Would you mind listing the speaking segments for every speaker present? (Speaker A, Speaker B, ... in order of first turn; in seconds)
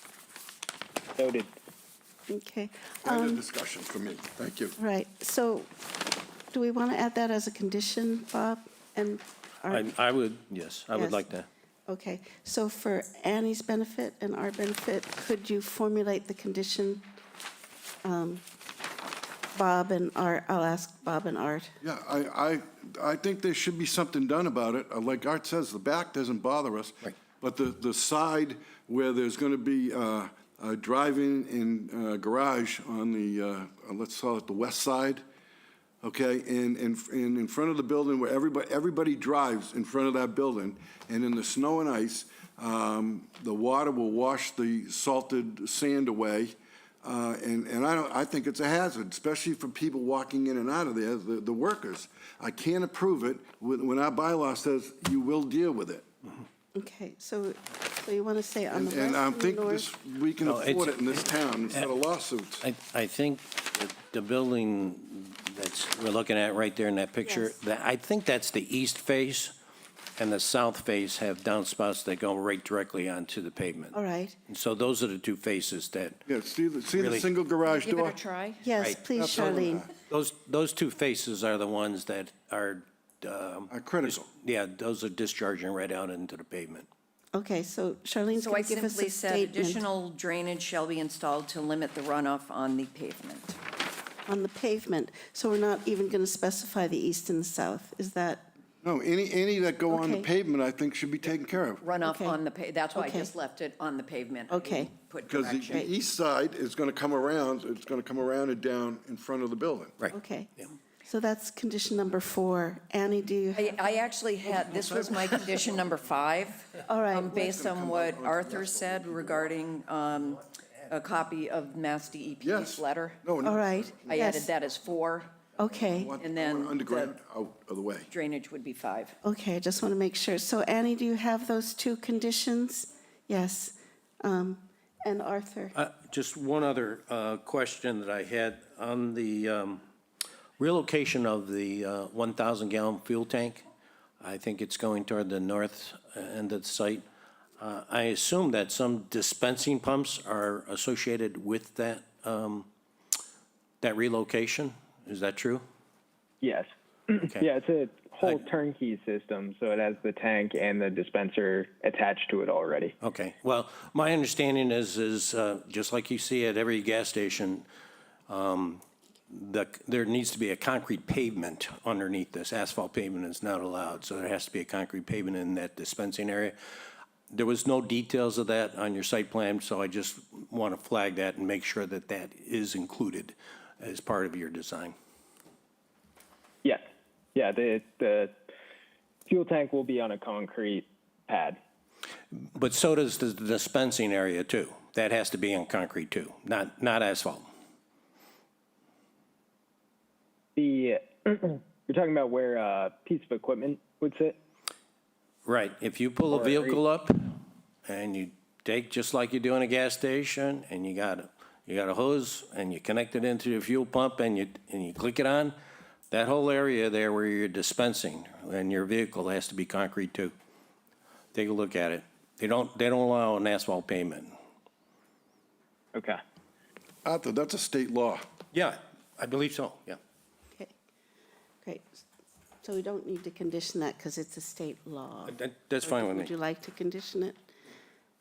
Speaker A: 1.2-1.5, 156.4-162.9, 187.3-188.3, 189.3-191.6, 200.6-204.4, 206.3-206.8, 225.9-226.2
Speaker B: 2.3-3.4, 4.8-5.7, 6.5-9.9, 10.9-11.2, 11.9-17.1, 18.0-18.4, 19.5-21.8, 56.8-59.9, 67.2-67.5, 73.9-74.4, 78.6-79.9, 87.3-89.8, 94.3-98.5, 99.9-100.3, 102.0-102.4, 103.0-103.3, 104.5-104.9, 110.1-110.5, 111.1-113.8, 116.9-117.4, 123.4-124.5, 125.6-126.1, 129.2-135.8, 231.6-232.0, 232.6-237.4
Speaker C: 3.0-4.8, 21.8-35.2, 36.0-56.1, 58.7-62.7, 76.3-78.2, 79.2-79.9, 83.7-84.3, 98.8-101.8, 105.3-110.0, 114.5-115.4, 117.3-119.6, 122.4-124.1, 125.9-128.1, 227.1-228.3
Speaker D: 9.7-11.5, 60.4-61.9, 62.6-69.5, 70.2-74.0, 74.5-76.3, 76.9-77.3, 80.0-86.9, 110.0-110.7, 135.8-139.8, 140.6-143.6, 144.2-147.0, 147.6-152.7, 153.8-155.6, 163.0-167.7, 168.3-176.6, 177.3-184.9, 192.3-197.5, 205.4-207.3, 207.8-215.5, 216.1-220.3, 221.3-224.3, 228.5-230.0, 235.3-236.3
Speaker E: 77.7-78.7, 88.3-93.6, 101.8-105.9, 113.5-123.3, 124.0-125.4, 126.2-127.2, 128.1-129.2